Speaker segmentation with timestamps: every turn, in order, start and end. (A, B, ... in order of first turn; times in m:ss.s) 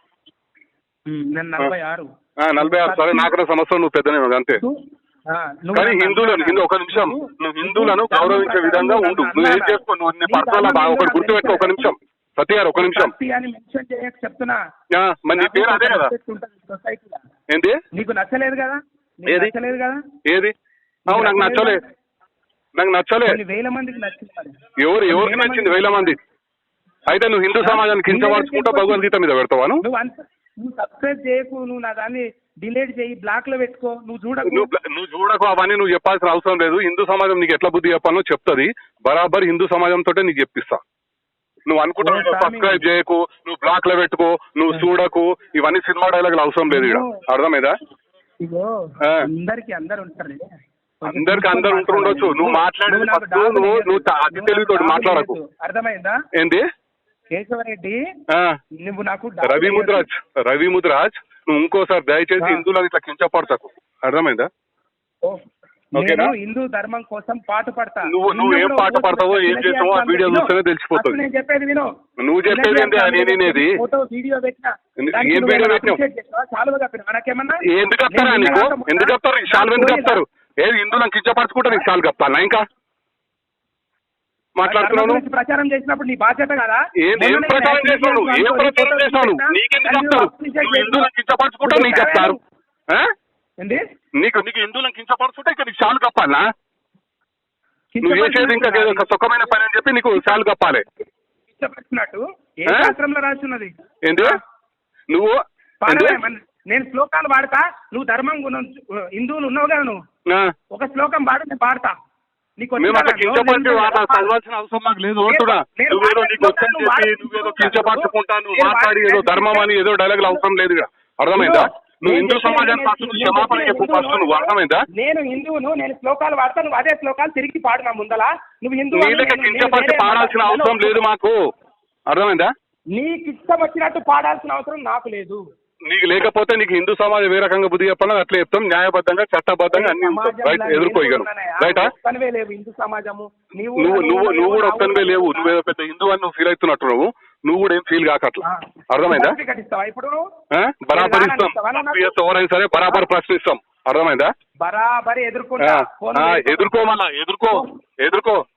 0:01.1-0:03.3 A
0:02.4-0:04.6 B
0:04.6-0:11.9 A
0:05.7-0:13.1 B
0:12.7-0:14.6 A
0:14.9-0:16.1 B
0:15.4-0:17.2 A
0:17.5-0:17.8 B
0:17.9-0:20.0 A
0:19.3-0:19.5 B
0:20.2-0:20.5 B
0:21.1-0:21.8 A
0:21.1-0:21.8 B
0:22.8-0:23.4 B
0:23.2-0:26.2 A
0:24.8-0:26.2 B
0:27.1-0:29.8 B
0:27.6-0:29.1 A
0:29.8-0:34.7 A
0:34.5-0:40.8 B
0:41.7-0:47.7 B
0:42.0-0:42.8 A
0:46.7-0:47.2 A
0:48.4-0:50.5 A
0:51.0-0:56.2 A
0:51.0-0:55.4 B
0:56.3-0:56.6 B
0:57.3-0:58.0 A
0:58.3-0:58.6 B
0:58.8-1:00.1 A
0:59.4-1:04.5 B
1:02.4-1:02.6 A
1:05.2-1:11.9 A
1:06.0-1:06.3 B
1:08.1-1:11.2 B
1:12.2-1:13.7 B
1:12.5-1:20.2 A
1:15.0-1:16.0 B
1:17.7-1:22.6 B
1:24.6-1:25.2 B
1:24.6-1:31.1 A
1:27.0-1:32.4 B
1:31.6-1:32.4 A
1:34.2-1:36.4 B
1:37.9-1:39.0 A
1:38.0-1:40.8 B
1:41.5-1:44.4 A
1:42.7-1:42.9 B
1:44.0-1:44.4 B
1:45.1-1:46.2 B
1:45.8-1:50.0 A
1:50.7-1:51.9 A
1:52.6-1:54.3 A
1:52.8-2:04.8 B
1:55.3-2:00.4 A
2:01.4-2:11.0 A
2:08.9-2:11.3 B
2:12.1-2:12.5 B
2:12.9-2:15.4 A
2:15.8-2:21.9 B
2:19.7-2:25.5 A
2:23.8-2:29.4 B
2:28.4-2:30.2 A
2:30.5-2:34.3 B
2:30.9-2:32.2 A
2:34.6-2:36.7 A
2:35.6-2:38.4 B